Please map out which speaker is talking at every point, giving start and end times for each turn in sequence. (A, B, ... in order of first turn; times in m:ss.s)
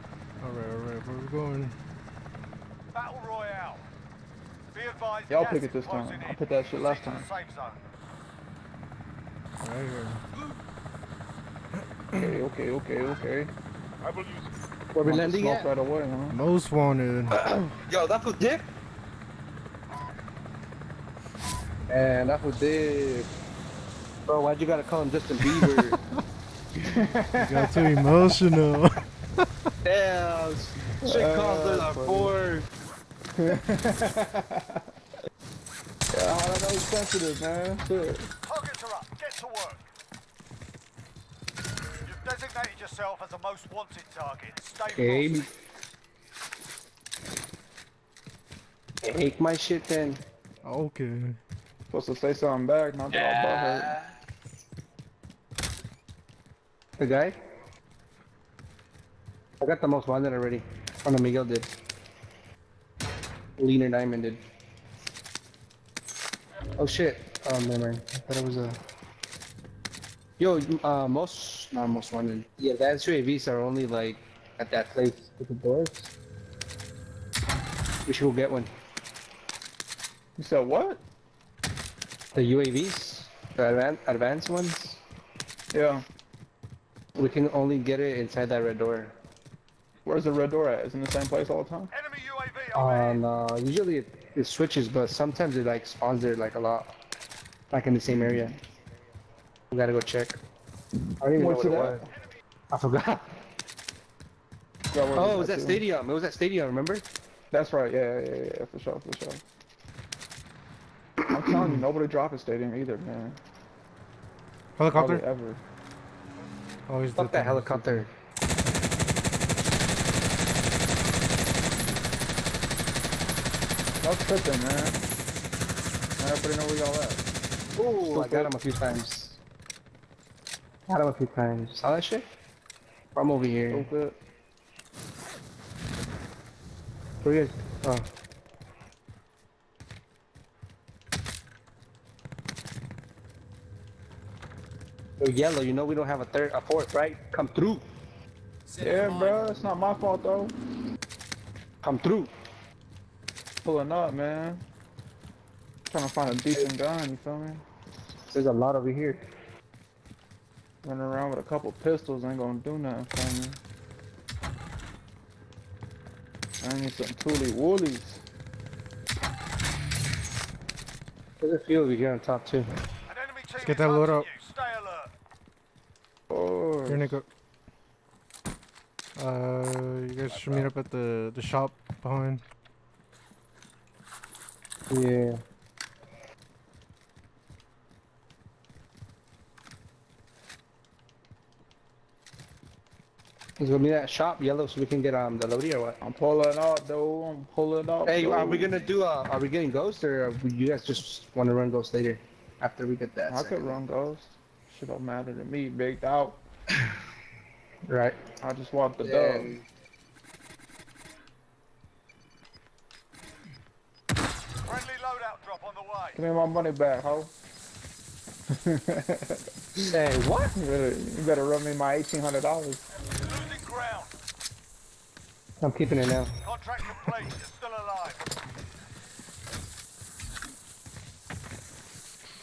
0:00.4-0:01.7 A
0:02.9-0:03.8 B
0:04.7-0:07.8 B
0:05.3-0:07.3 C
0:09.6-0:10.2 A
0:12.2-0:13.5 C
0:14.9-0:15.7 D
0:15.0-0:16.4 C
0:16.3-0:17.4 A
0:17.3-0:18.6 D
0:21.9-0:23.3 D
0:24.3-0:26.0 D
0:26.9-0:28.1 C
0:27.4-0:28.9 A
0:29.8-0:32.7 D
0:31.0-0:32.3 C
0:33.4-0:34.8 C
0:36.1-0:38.3 C
0:38.4-0:39.8 B
0:42.0-0:45.4 B
0:44.9-0:45.5 D
0:49.0-0:50.2 D
0:50.6-0:51.4 A
0:51.9-0:54.0 C
0:53.1-0:54.1 D
0:57.0-0:57.3 D
0:59.6-1:01.7 D
1:03.6-1:04.4 D
1:06.8-1:08.8 D
1:10.4-1:16.1 D
1:18.0-1:18.7 D
1:20.4-1:21.0 C
1:22.3-1:25.0 D
1:25.7-1:26.0 C
1:27.2-1:29.1 D
1:30.0-1:31.9 C
1:31.9-1:33.2 B
1:32.7-1:36.9 D
1:37.7-1:38.5 D
1:38.1-1:38.5 C
1:39.7-1:40.4 D
1:41.2-1:42.0 D
1:41.3-1:42.1 C
1:42.7-1:43.3 D
1:44.9-1:45.8 C
1:45.1-1:47.0 D
1:47.5-1:49.4 C
1:51.3-1:53.4 C
1:54.8-1:55.2 A
1:54.9-1:55.6 C
1:56.9-1:58.1 A
1:57.2-1:58.1 D
2:04.0-2:05.0 C
2:06.2-2:07.2 C
2:07.8-2:09.4 D
2:08.1-2:08.6 C
2:10.9-2:12.2 D
2:13.1-2:13.9 D
2:13.7-2:14.2 C
2:17.2-2:18.1 D
2:25.2-2:27.8 D
2:28.8-2:30.5 C
2:31.8-2:32.3 D
2:33.6-2:34.6 C
2:35.9-2:37.6 C
2:38.3-2:39.2 D
2:40.8-2:43.6 C
2:46.6-2:48.2 C
2:51.4-2:52.7 D
2:53.1-2:55.1 B
2:53.6-2:54.3 A
2:56.3-2:57.2 C
2:56.9-2:57.2 A
2:59.2-3:02.4 A
3:04.9-3:05.4 D
3:13.6-3:16.0 D
3:16.0-3:18.8 C
3:18.0-3:23.8 D
3:23.3-3:26.4 C
3:27.9-3:28.2 D
3:28.4-3:29.6 C
3:29.0-3:29.6 D
3:34.6-3:36.2 B
3:36.1-3:37.3 C
3:38.6-3:40.0 C
3:39.8-3:40.5 D
3:40.6-3:42.8 C
3:43.2-3:44.1 B
3:45.6-3:46.3 D
3:46.4-3:48.2 B